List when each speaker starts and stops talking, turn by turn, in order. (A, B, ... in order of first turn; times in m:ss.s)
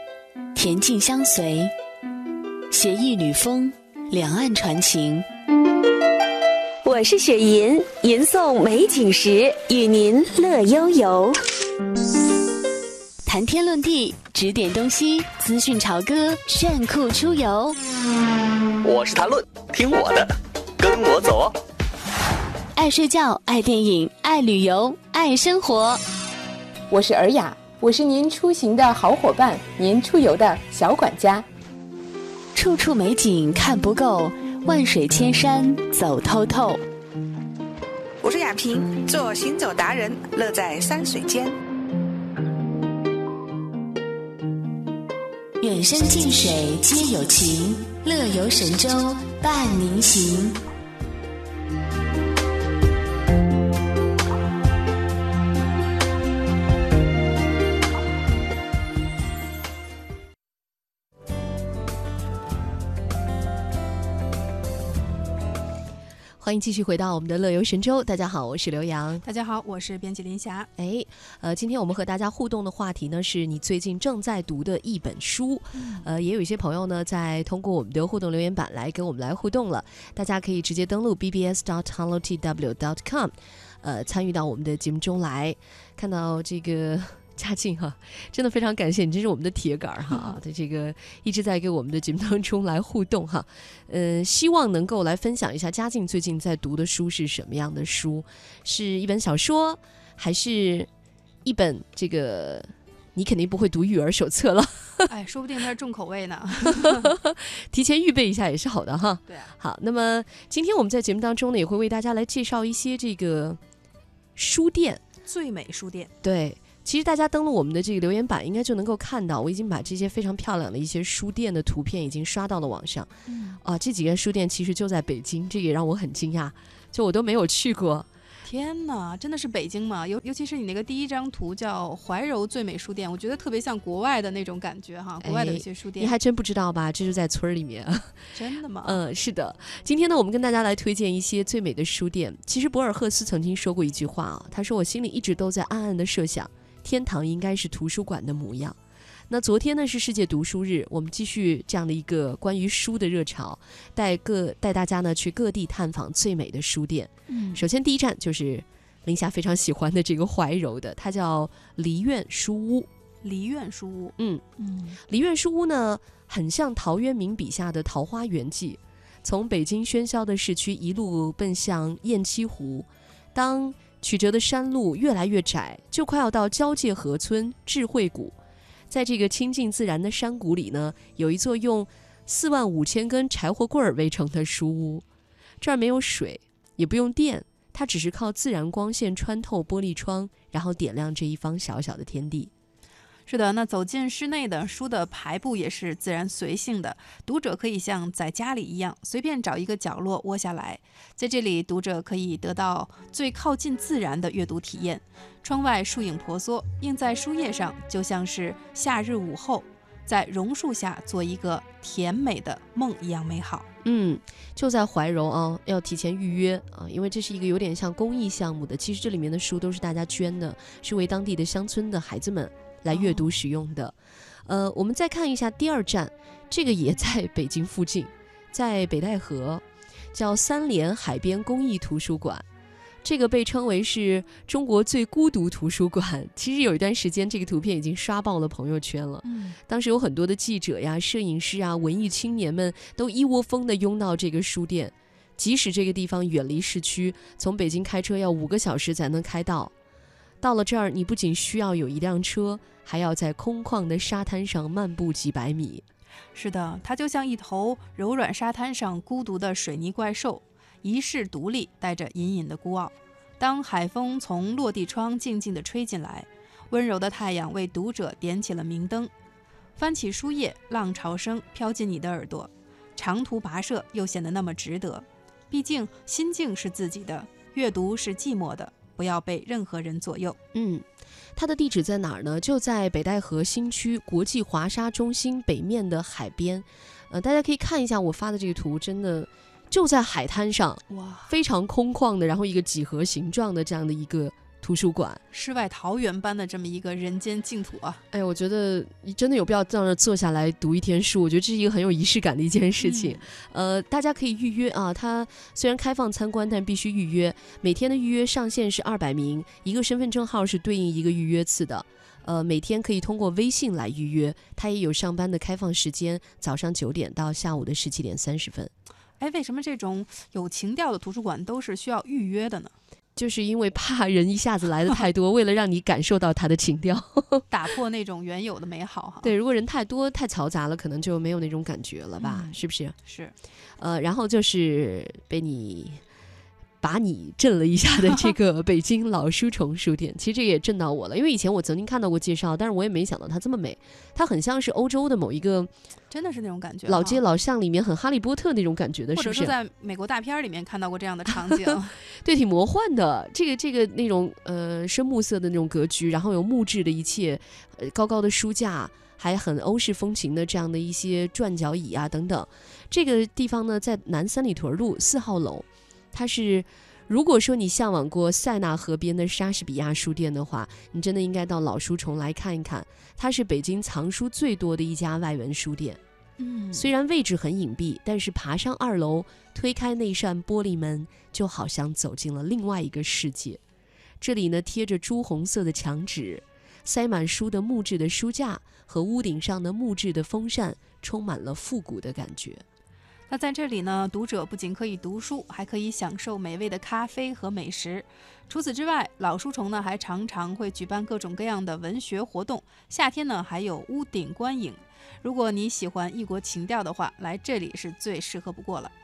0:00.6-0:01.7 A
0:02.7-0:05.3 A
0:06.8-0:11.4 B
0:13.2-0:17.8 A
0:18.8-0:21.5 C
0:22.8-0:26.0 A
0:26.9-0:31.5 D
0:32.6-0:36.8 A
0:38.2-0:41.6 E
0:45.6-0:50.6 A
1:06.4-1:09.2 F
1:09.2-1:10.7 G
1:10.8-1:40.9 F
1:15.8-1:16.0 G
1:30.1-1:30.4 G
1:41.4-1:45.1 F
1:45.1-1:47.1 G
1:47.0-1:53.6 F
1:54.4-1:55.0 F
1:55.2-1:56.1 G
1:56.2-2:08.1 F
2:03.3-2:03.6 G
2:08.4-2:16.2 G
2:15.2-2:18.3 F
2:18.3-2:19.0 G
2:18.8-2:28.8 F
2:29.3-2:42.9 F
2:37.3-2:37.6 G
2:43.2-2:45.0 G
2:44.2-2:44.4 F
2:45.1-2:58.4 F
2:58.9-3:05.0 F
3:05.6-3:12.5 F
3:13.3-3:33.7 G
3:33.8-3:52.4 F
3:42.9-3:43.4 G
3:53.0-4:09.7 F
3:59.2-3:59.6 G
4:10.4-4:15.8 F
4:16.4-4:29.1 G
4:29.8-4:40.4 G
4:40.5-4:55.2 F
4:50.9-4:51.3 G
4:55.3-4:58.0 G
4:58.1-5:18.7 F
5:02.8-5:03.2 G
5:19.2-5:22.7 G
5:23.2-5:27.5 F
5:27.5-5:29.3 G
5:29.2-5:33.0 F
5:32.2-5:33.4 G
5:33.8-5:36.0 F
5:36.8-5:45.7 F
5:46.1-5:47.2 G
5:46.9-5:49.6 F
5:49.2-5:52.0 G
5:52.2-6:16.0 F
6:16.4-6:16.9 G
6:16.7-6:23.6 F
6:24.2-6:32.6 F
6:33.3-6:48.9 G